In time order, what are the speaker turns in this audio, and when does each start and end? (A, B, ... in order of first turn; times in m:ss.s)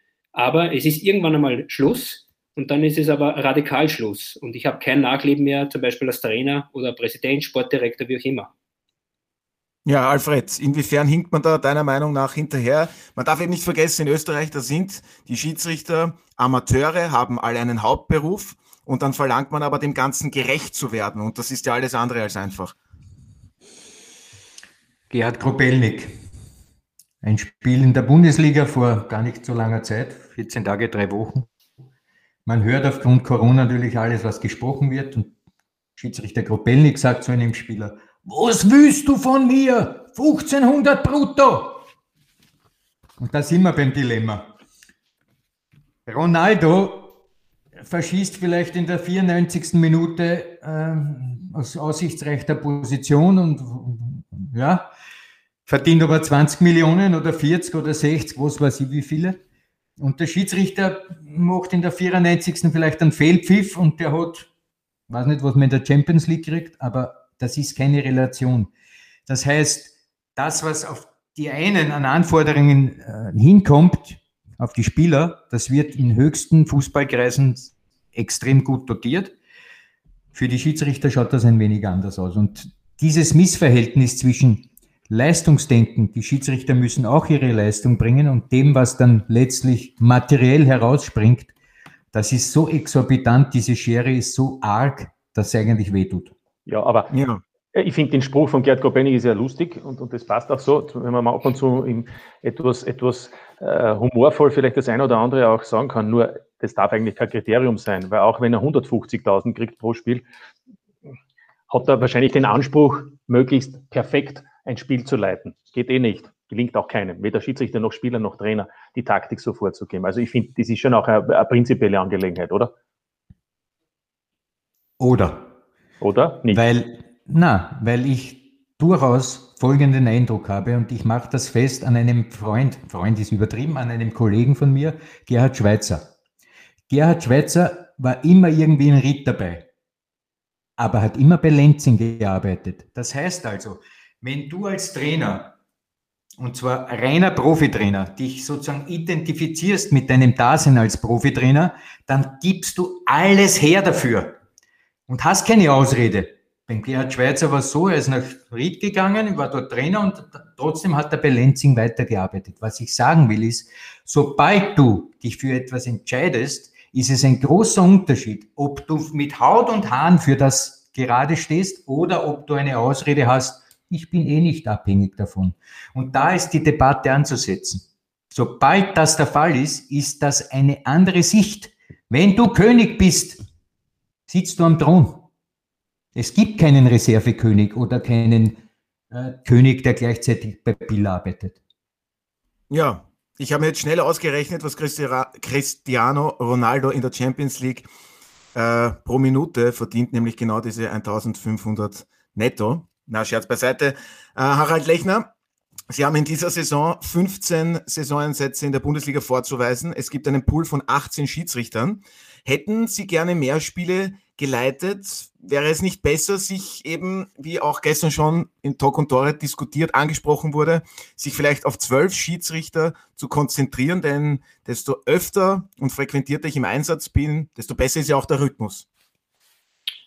0:00.3-0:08.5 A
0:09.9-0:22.8 B
0:25.1-0:26.1 C
0:27.2-0:31.5 C
0:32.4-0:35.3 C
0:36.0-0:41.8 C
0:43.2-0:44.5 C
0:46.1-0:47.2 C
0:47.8-0:54.9 C
0:55.7-0:59.4 C
1:00.0-1:04.5 C
1:05.1-1:08.7 C
1:09.3-1:19.3 C
1:20.3-1:31.5 C
1:32.1-1:36.3 C
1:36.6-1:37.1 D
1:37.1-1:37.4 B
1:37.7-1:50.2 D
1:51.7-2:02.7 D
2:05.0-2:05.5 C
2:06.0-2:06.6 D
2:06.5-2:16.1 C
2:16.9-2:19.7 C
2:20.8-2:25.6 C
2:26.4-2:34.4 C
2:35.1-3:03.4 C
3:04.3-3:05.3 C
3:06.1-3:08.6 C
3:09.1-3:11.6 C
3:12.7-3:17.9 B
3:18.6-3:25.3 B
3:25.9-3:48.9 B